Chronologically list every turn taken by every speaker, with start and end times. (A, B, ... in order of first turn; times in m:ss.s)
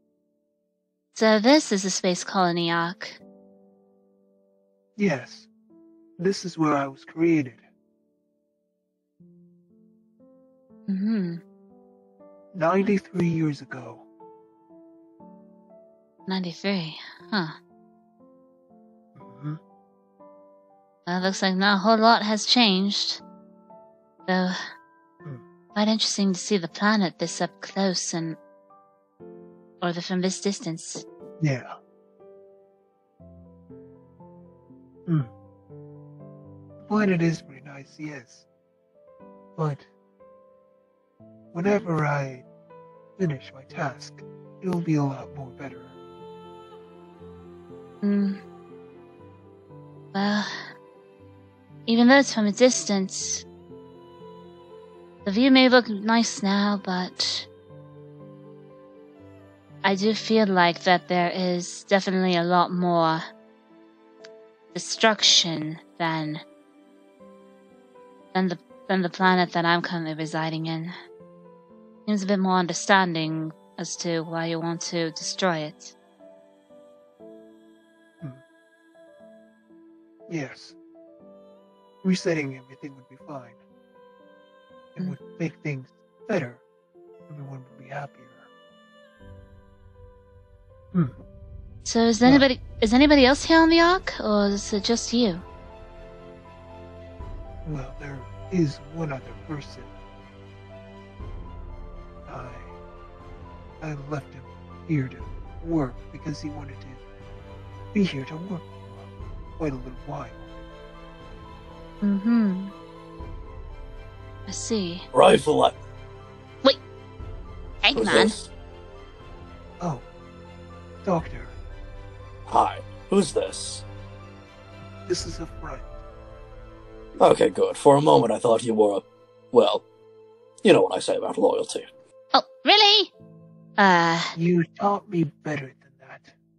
0:01.1-0:03.2 A
0:05.0-0:05.5 B
0:06.2-0:07.7 B
0:10.9-0:11.4 A
0:12.5-0:14.0 B
0:16.3-0:17.6 A
0:19.2-0:19.6 B
0:21.1-0:23.2 A
0:24.3-0:24.6 A
0:25.7-0:28.4 A
0:29.8-0:31.0 A
0:31.4-0:31.8 B
0:35.0-0:35.3 B
0:36.8-0:38.4 B
0:39.6-0:39.9 B
0:41.5-0:42.4 B
0:43.2-0:46.0 B
0:48.0-0:48.4 A
0:50.1-0:50.7 A
0:51.9-0:53.4 A
0:55.2-0:57.5 A
0:59.8-1:03.2 A
1:04.7-1:06.4 A
1:08.3-1:10.9 A
1:12.0-1:15.9 A
1:20.3-1:20.8 B
1:22.0-1:23.6 B
1:24.9-1:26.6 B
1:27.3-1:28.5 B
1:30.9-1:31.2 B
1:31.8-1:35.4 A
1:37.6-1:39.9 B
1:42.2-1:42.8 B
1:43.8-1:47.0 B
1:47.9-1:50.5 B
1:52.0-1:52.7 A
1:54.5-1:55.0 A
1:55.1-1:55.8 C
1:57.8-1:58.4 A
1:57.9-1:58.5 C
1:59.8-2:00.0 B
2:01.0-2:01.6 B
2:02.5-2:03.8 C
2:05.1-2:06.0 B
2:07.2-2:09.8 C
2:10.6-2:11.9 C
2:12.3-2:13.1 A
2:13.8-2:14.3 A
2:14.4-2:16.3 B